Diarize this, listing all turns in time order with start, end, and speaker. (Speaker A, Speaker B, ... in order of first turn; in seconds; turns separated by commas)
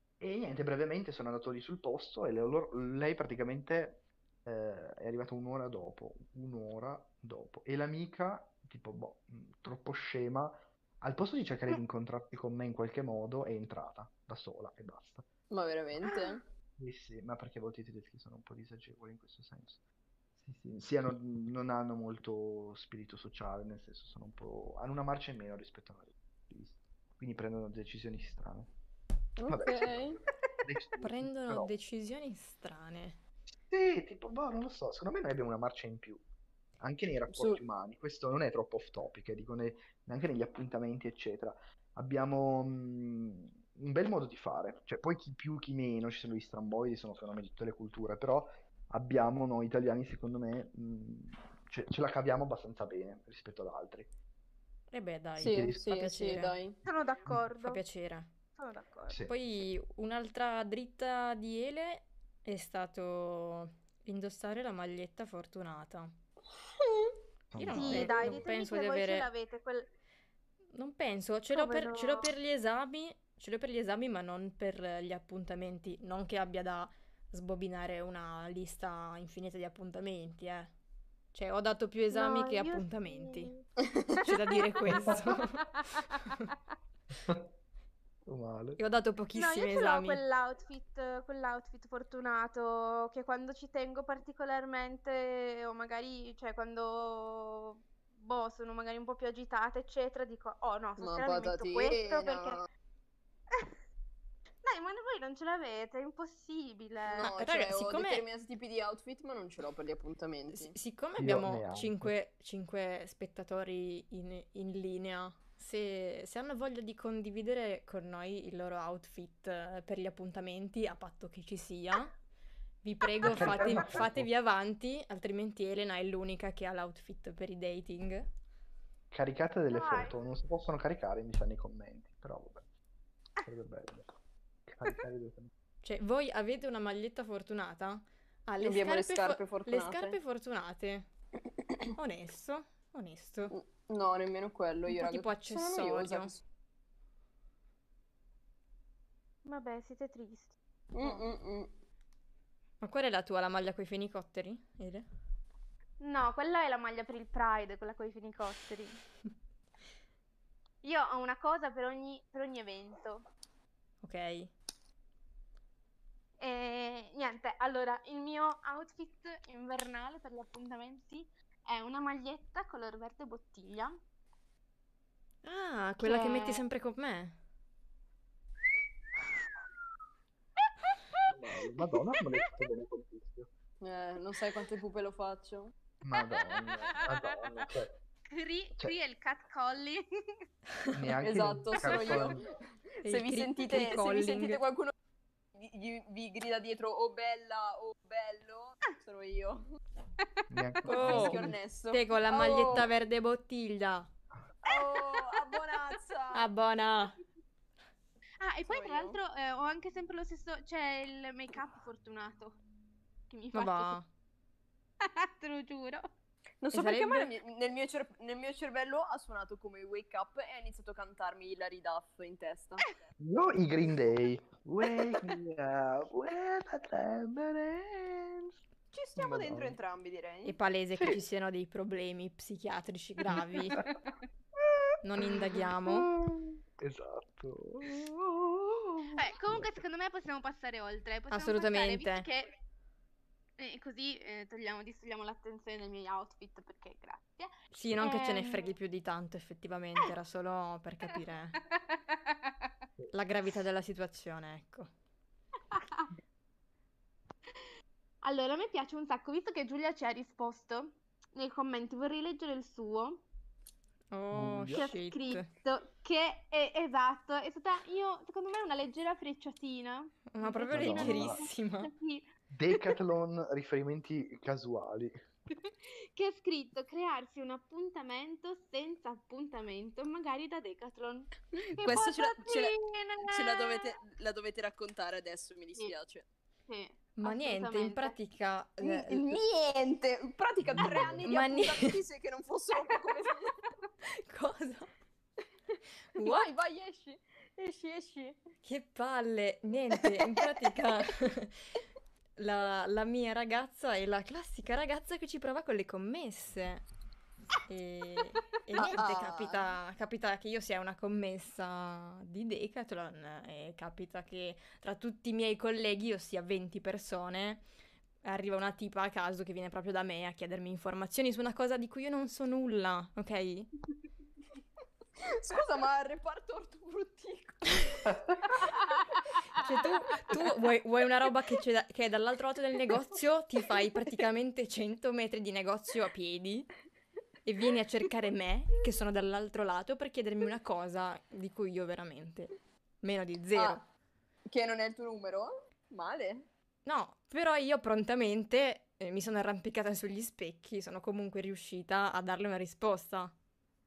Speaker A: 0.2-15.3, Speaker B: 15.5-16.4, Speaker A: 16.8-19.8, Speaker A: 20.4-28.7, Speaker B: 29.4-30.2, Speaker A: 29.5-31.7, Speaker C: 31.0-33.2, Speaker A: 33.7-36.2, Speaker A: 36.8-54.1, Speaker B: 37.3-37.6, Speaker C: 54.9-56.6, Speaker B: 55.4-56.8, Speaker A: 55.4-55.8, Speaker D: 56.8-57.8, Speaker C: 57.6-58.3, Speaker D: 58.5-59.2, Speaker A: 59.1-59.4, Speaker C: 59.3-66.1, Speaker B: 66.8-67.1, Speaker A: 67.5-68.4, Speaker C: 67.5-69.3, Speaker D: 67.7-69.9, Speaker C: 70.7-80.7, Speaker D: 71.5-72.3, Speaker C: 81.3-83.5, Speaker D: 82.1-83.7, Speaker B: 83.8-84.2, Speaker C: 84.2-85.7, Speaker D: 84.3-86.5, Speaker A: 87.2-87.5, Speaker A: 88.2-88.8, Speaker C: 88.8-90.2, Speaker D: 89.3-102.6, Speaker B: 101.0-102.7, Speaker D: 104.6-107.3, Speaker B: 107.1-110.8, Speaker C: 107.2-108.2, Speaker C: 110.5-122.1, Speaker A: 111.2-112.1, Speaker C: 122.8-128.3, Speaker A: 123.2-124.3, Speaker A: 129.1-132.7, Speaker D: 129.7-130.2, Speaker A: 133.4-134.1, Speaker A: 134.7-135.5, Speaker C: 135.8-141.1, Speaker B: 138.6-140.2, Speaker C: 141.9-143.5, Speaker B: 143.5-146.4, Speaker C: 144.9-146.3, Speaker D: 149.4-151.2, Speaker B: 150.9-151.7, Speaker C: 152.8-155.0, Speaker D: 156.0-159.0, Speaker D: 160.8-163.2, Speaker C: 164.0-164.5, Speaker D: 166.4-174.0, Speaker C: 175.4-177.4, Speaker D: 176.0-176.6, Speaker A: 181.3-183.5, Speaker B: 183.8-185.7, Speaker A: 186.0-187.9, Speaker D: 186.2-187.4, Speaker D: 188.3-190.1, Speaker A: 190.9-192.4, Speaker B: 191.2-194.9, Speaker C: 193.0-194.6, Speaker B: 195.5-199.7, Speaker A: 200.5-201.6, Speaker B: 200.8-202.9, Speaker C: 200.9-204.1, Speaker B: 204.6-206.5, Speaker D: 204.7-205.6, Speaker C: 206.3-207.2, Speaker D: 208.4-212.6, Speaker B: 208.7-209.2, Speaker D: 213.3-214.0, Speaker C: 213.5-214.1, Speaker D: 215.0-216.1, Speaker B: 216.6-222.9, Speaker C: 216.7-217.3, Speaker A: 223.2-228.6, Speaker B: 228.9-230.6, Speaker A: 229.2-229.8, Speaker C: 230.4-233.8, Speaker A: 230.9-231.2, Speaker A: 233.3-233.9, Speaker A: 234.6-239.7, Speaker C: 235.0-236.1, Speaker D: 239.2-242.5, Speaker C: 241.3-242.2, Speaker D: 243.6-248.7, Speaker C: 247.7-251.6, Speaker D: 251.7-252.5, Speaker C: 253.1-254.9, Speaker D: 255.7-256.1, Speaker D: 258.2-263.2, Speaker C: 264.1-265.5, Speaker A: 264.3-264.9, Speaker D: 264.7-272.9, Speaker C: 270.3-271.9, Speaker A: 270.7-271.4, Speaker A: 272.5-275.2, Speaker D: 276.1-281.3, Speaker B: 281.5-286.2, Speaker A: 281.7-282.0, Speaker D: 281.8-283.9, Speaker D: 286.7-288.1, Speaker C: 287.1-289.4, Speaker B: 288.8-293.6, Speaker A: 290.6-291.3, Speaker C: 291.2-292.0, Speaker C: 294.1-294.9, Speaker C: 296.1-296.5, Speaker B: 296.2-298.4, Speaker C: 298.6-301.8, Speaker B: 300.0-300.7, Speaker C: 302.4-306.8, Speaker C: 307.7-317.6, Speaker B: 308.8-309.8, Speaker C: 318.2-323.7, Speaker B: 325.2-328.1, Speaker C: 329.5-336.7, Speaker C: 337.4-343.8, Speaker B: 343.5-343.8, Speaker B: 344.4-346.5, Speaker C: 346.8-353.3